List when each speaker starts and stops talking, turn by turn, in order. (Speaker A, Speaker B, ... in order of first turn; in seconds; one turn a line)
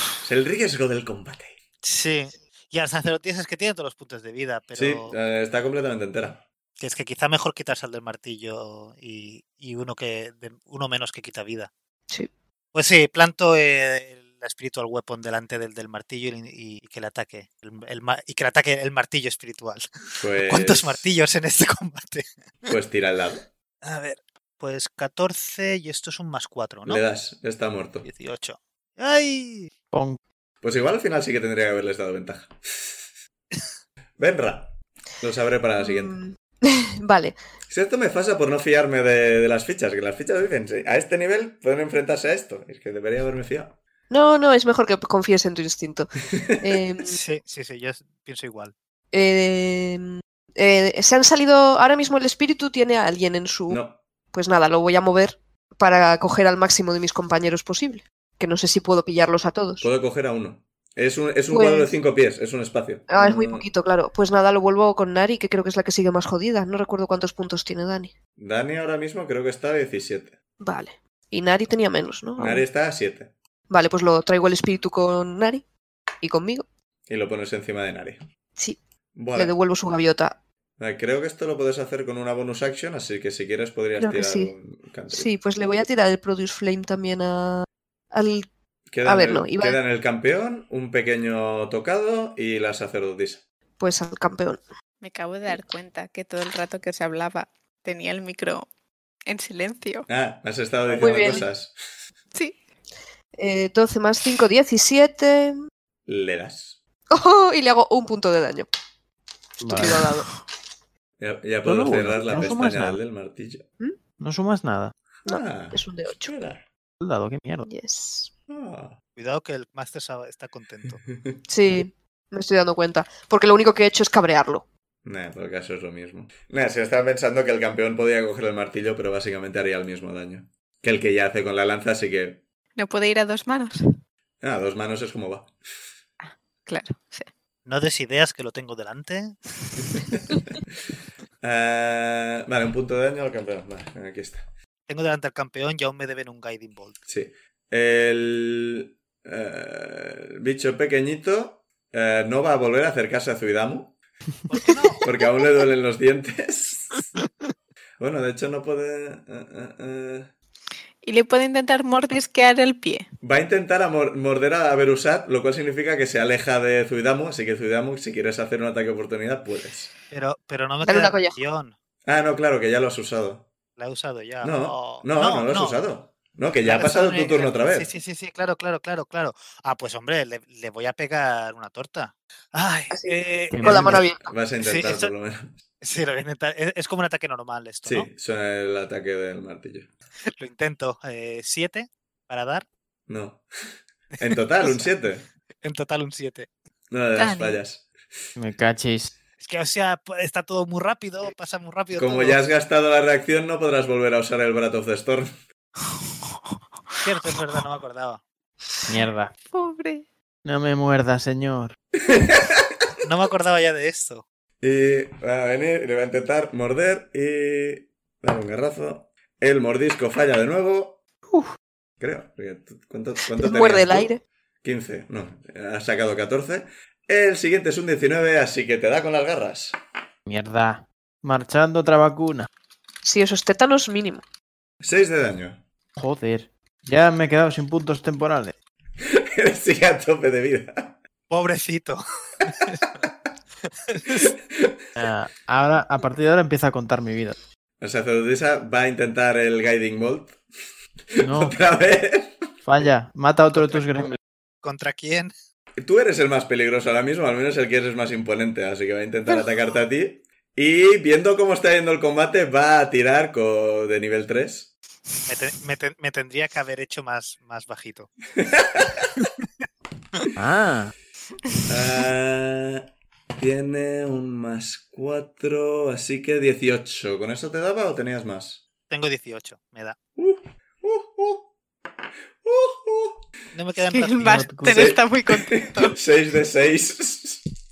Speaker A: 0.2-1.6
Speaker B: 1.8-5.2
Speaker A: 4.8-6.4
Speaker B: 6.8-11.7
Speaker B: 12.7-22.7
Speaker A: 20.2-21.1
Speaker A: 22.7-23.5
Speaker B: 23.8-27.0
Speaker A: 26.9-28.1
Speaker B: 28.0-29.7
Speaker C: 29.9-30.2
Speaker A: 30.6-33.0
Speaker A: 34.2-36.2
Speaker D: 35.8-37.4
Speaker A: 37.7-43.8
Speaker D: 44.1-46.1
Speaker A: 46.3-46.8
Speaker D: 46.6-47.2
Speaker B: 47.0-48.7
Speaker D: 49.1-53.8
Speaker A: 53.7-54.0
Speaker D: 54.3-59.9
Speaker A: 59.8-63.6
Speaker D: 61.5-62.0
Speaker D: 63.1-68.2
Speaker A: 68.4-70.4
Speaker D: 70.6-72.7
Speaker A: 72.4-73.3
Speaker D: 73.7-75.7
Speaker D: 76.2-76.7
Speaker A: 77.1-78.2
Speaker A: 79.2-79.5
Speaker D: 79.3-80.3
Speaker A: 80.8-85.3
Speaker D: 84.0-84.5
Speaker D: 85.1-88.5
Speaker A: 88.9-93.4
Speaker D: 89.0-89.8
Speaker D: 93.8-94.6
Speaker E: 95.0-98.7
Speaker E: 99.3-100.1
Speaker A: 100.1-101.7
Speaker D: 101.0-101.4
Speaker D: 103.4-105.6
Speaker A: 106.1-106.8
Speaker D: 107.1-108.7
Speaker C: 109.6-110.0
Speaker D: 109.6-110.3
Speaker A: 111.2-113.7
Speaker C: 111.6-113.0
Speaker C: 114.2-114.9
Speaker A: 115.2-116.7
Speaker D: 115.3-116.3
Speaker C: 117.0-117.7
Speaker D: 117.7-118.3
Speaker A: 118.5-119.0
Speaker B: 119.2-121.0
Speaker D: 121.5-124.7
Speaker A: 125.0-132.4
Speaker E: 132.8-133.8
Speaker A: 134.4-135.5
Speaker E: 136.7-137.3
Speaker B: 137.7-139.4
Speaker A: 139.9-140.4
Speaker A: 141.4-144.5
Speaker B: 144.9-147.0
Speaker A: 147.1-154.0
Speaker B: 154.5-155.1
Speaker A: 155.0-157.1
Speaker A: 158.0-160.3
Speaker E: 161.0-163.1
Speaker A: 163.2-169.9
Speaker B: 170.1-171.8
Speaker D: 170.8-171.4
Speaker A: 172.1-173.5
Speaker B: 173.8-175.8
Speaker A: 174.4-177.9
Speaker B: 176.6-184.0
Speaker D: 182.9-184.3
Speaker C: 183.5-183.9
Speaker A: 184.2-185.5
Speaker B: 184.6-185.1
Speaker B: 185.8-188.1
Speaker A: 187.8-189.9
Speaker B: 190.4-192.7
Speaker A: 193.1-193.4
Speaker A: 194.2-195.3
Speaker B: 194.2-194.9
Speaker B: 195.6-196.5
Speaker A: 196.9-197.9
Speaker E: 197.2-197.6
Speaker C: 198.4-199.1
Speaker B: 199.4-202.4
Speaker A: 202.0-205.3
Speaker B: 207.0-208.2
Speaker C: 208.9-209.3
Speaker E: 209.5-210.1
Speaker C: 210.4-211.8
Speaker A: 212.1-212.7
Speaker B: 213.0-214.2
Speaker A: 214.6-221.0
Speaker A: 222.0-224.1
Speaker D: 223.3-224.2
Speaker A: 224.6-229.8
Speaker C: 230.3-232.5
Speaker D: 233.0-234.2
Speaker A: 234.8-235.6
Speaker C: 236.0-238.6
Speaker A: 239.0-241.0
Speaker B: 241.3-242.9
Speaker B: 243.9-244.3
Speaker A: 244.2-244.8
Speaker C: 245.0-247.4
Speaker A: 247.8-250.4
Speaker A: 251.2-252.6
Speaker C: 251.2-251.6
Speaker C: 252.7-254.2
Speaker B: 254.6-255.3
Speaker A: 255.8-264.7
Speaker B: 265.3-268.1
Speaker A: 268.4-269.1
Speaker C: 270.4-270.9
Speaker A: 271.7-278.6
Speaker B: 278.9-280.0
Speaker A: 280.2-281.5
Speaker A: 282.4-283.2
Speaker B: 283.5-284.5
Speaker E: 283.9-286.0
Speaker C: 284.2-284.9
Speaker A: 284.7-287.4